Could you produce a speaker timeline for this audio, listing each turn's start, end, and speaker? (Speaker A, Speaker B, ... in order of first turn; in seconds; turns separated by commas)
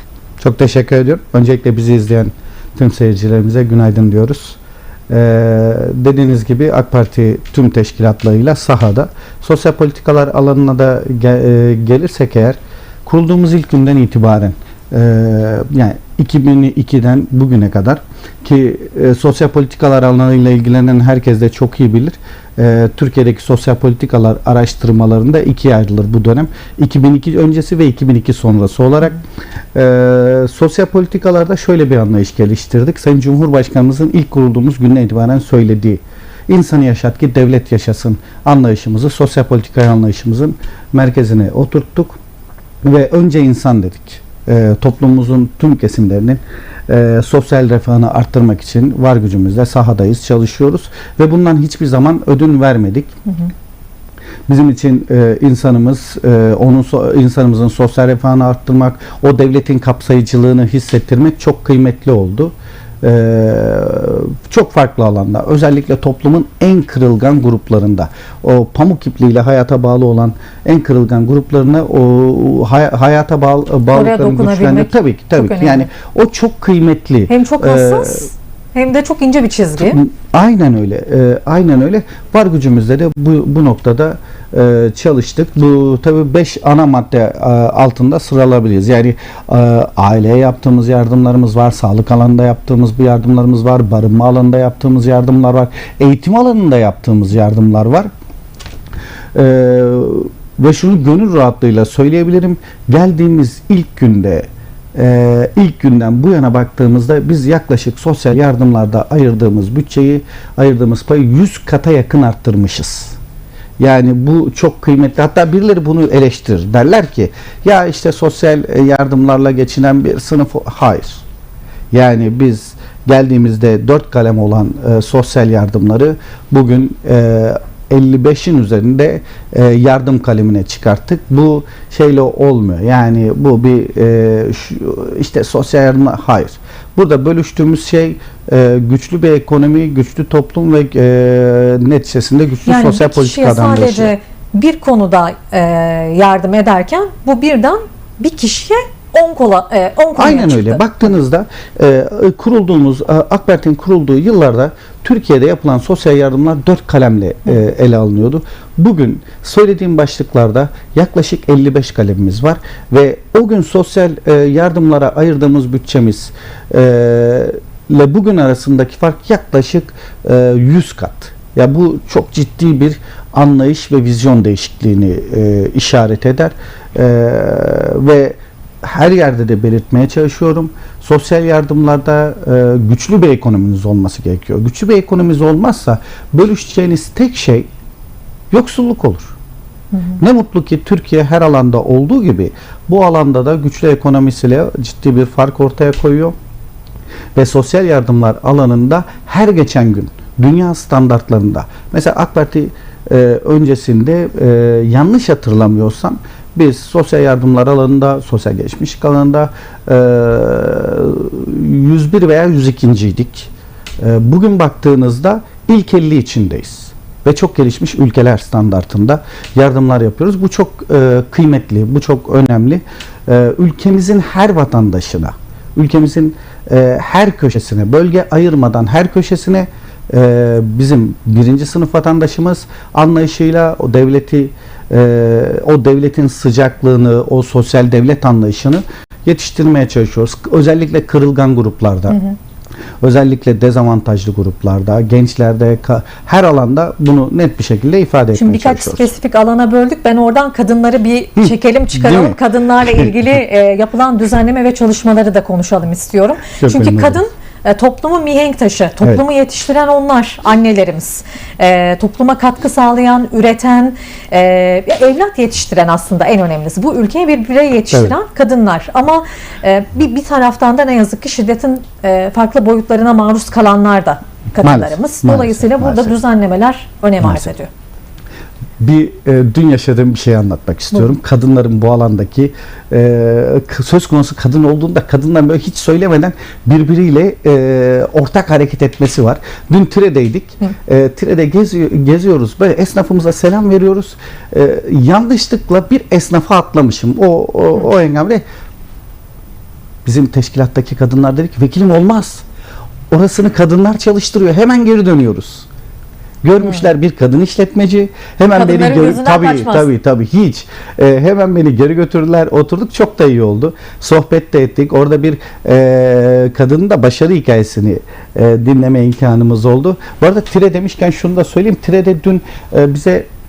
Speaker A: 0.4-4.6, Speaker A: 5.1-29.2, Speaker A: 29.7-42.2, Speaker A: 42.8-53.1, Speaker A: 54.5-78.3, Speaker B: 73.9-75.9, Speaker B: 77.3-80.0, Speaker A: 79.8-98.1, Speaker A: 99.3-113.2, Speaker A: 113.8-121.2, Speaker A: 121.9-144.1, Speaker B: 142.6-150.8, Speaker A: 150.2-187.7, Speaker A: 188.5-189.3, Speaker B: 189.9-190.2, Speaker A: 190.2-196.3, Speaker A: 197.3-242.2, Speaker B: 242.1-242.3, Speaker A: 243.0-249.1, Speaker B: 248.3-277.7, Speaker A: 251.4-252.4, Speaker A: 256.6-257.2, Speaker A: 267.9-268.1, Speaker A: 274.6-276.2, Speaker A: 277.2-277.5, Speaker A: 278.8-298.4, Speaker A: 300.0-302.4, Speaker A: 303.1-305.7, Speaker A: 306.4-323.3, Speaker B: 308.5-309.9